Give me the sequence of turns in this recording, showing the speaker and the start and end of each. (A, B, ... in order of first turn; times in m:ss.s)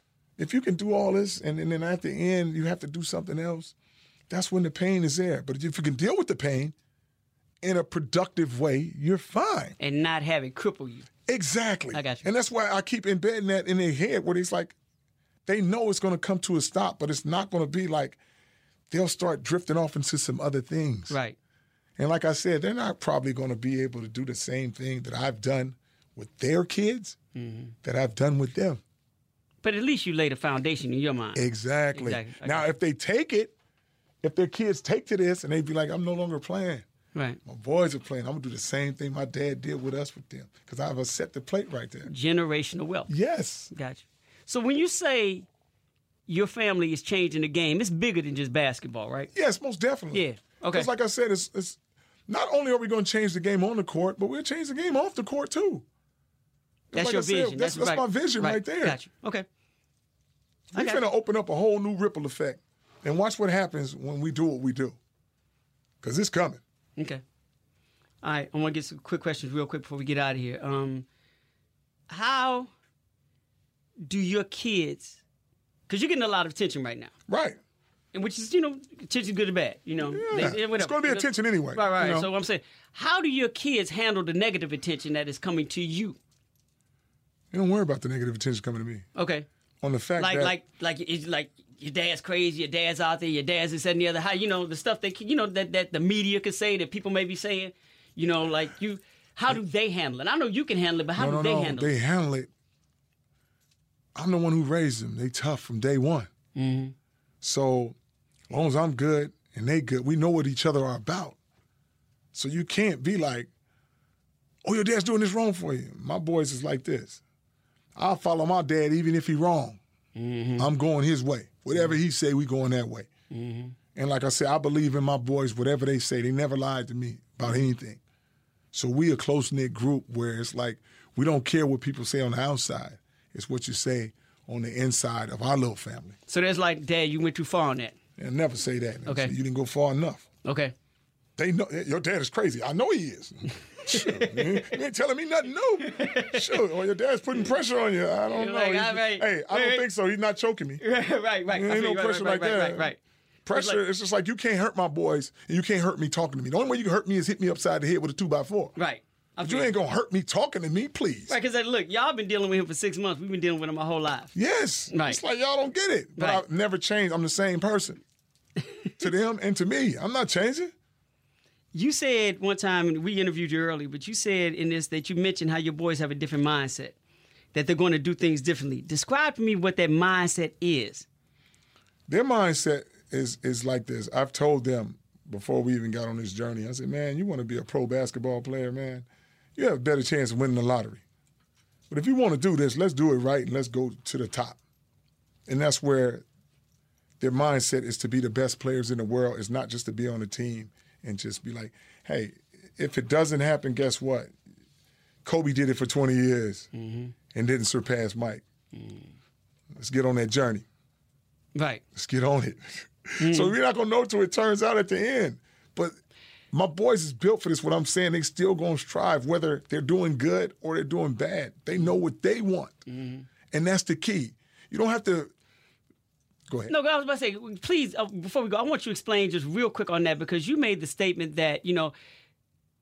0:00.4-0:03.7 A
0:04.3-0:06.7 A
0:07.6-0:09.8 A
0:09.8-0:11.1 B
0:11.3-0:14.8 A
0:11.9-0:12.3 B
0:15.4-0:18.2 A
0:18.9-0:21.2 A
0:21.1-0:21.4 B
0:22.0-0:27.2 A
0:27.3-0:27.7 B
0:27.8-0:28.8 A
0:29.6-0:32.7 B
0:31.3-0:33.5 A
0:34.2-0:36.8 A
0:37.1-0:37.4 B
0:37.4-0:42.1 A
0:42.0-0:43.1 B
0:43.1-0:43.7 A
0:43.7-0:45.5 B
0:46.3-0:49.3 B
0:49.3-0:55.8 A
0:50.1-0:50.9 B
0:56.9-0:59.0 A
0:56.9-0:59.4 B
1:00.7-1:05.0 A
1:00.7-1:01.0 B
1:06.0-1:06.6 A
1:07.0-1:07.2 B
1:08.2-1:11.0 B
1:12.1-1:12.7 B
1:14.0-1:15.2 B
1:15.9-1:17.1 B
1:17.3-1:17.6 A
1:18.1-1:26.2 B
1:20.0-1:22.3 A
1:27.5-1:29.0 A
1:29.1-1:29.5 B
1:29.8-1:30.6 A
1:30.2-1:41.9 B
1:41.2-1:42.5 A
1:44.1-1:46.3 A
1:46.5-1:46.9 B
1:47.4-1:48.0 A
1:48.5-1:51.4 A
1:52.3-1:53.5 A
1:54.6-1:57.2 A
1:57.9-1:59.8 A
2:00.1-2:00.7 B
2:00.6-2:03.1 A
2:03.3-2:03.8 B
2:03.9-2:08.0 A
2:08.7-2:16.2 A
2:16.3-2:18.0 B
2:18.2-2:20.3 A
2:19.0-2:19.3 B
2:20.4-2:20.7 B
2:21.4-2:30.8 A
2:23.8-2:24.8 B
2:25.8-2:26.6 B
2:28.3-2:29.8 B
2:30.8-2:33.0 B
2:31.5-2:38.8 A
2:33.5-2:33.8 B
2:38.8-2:39.7 B
2:39.4-2:41.4 A
2:41.3-2:44.3 B
2:44.3-2:48.0 A
2:44.9-2:45.2 B
2:46.2-2:46.4 B
2:49.0-2:50.7 A
2:51.7-2:57.0 B
2:57.5-3:01.0 B
3:02.1-3:11.0 A
3:11.9-3:14.6 A
3:15.5-3:16.2 A
3:17.2-3:24.3 A
3:25.2-3:26.7 A
3:26.7-3:27.1 B
3:27.3-3:28.4 A
3:28.7-3:29.1 B
3:29.7-3:30.6 A
3:31.5-3:31.8 B
3:31.9-3:36.0 A
3:33.2-3:33.5 B
3:36.5-3:42.8 A
3:42.9-3:43.3 B
3:43.5-3:45.3 A
3:46.5-3:46.7 A
3:46.7-3:51.9 B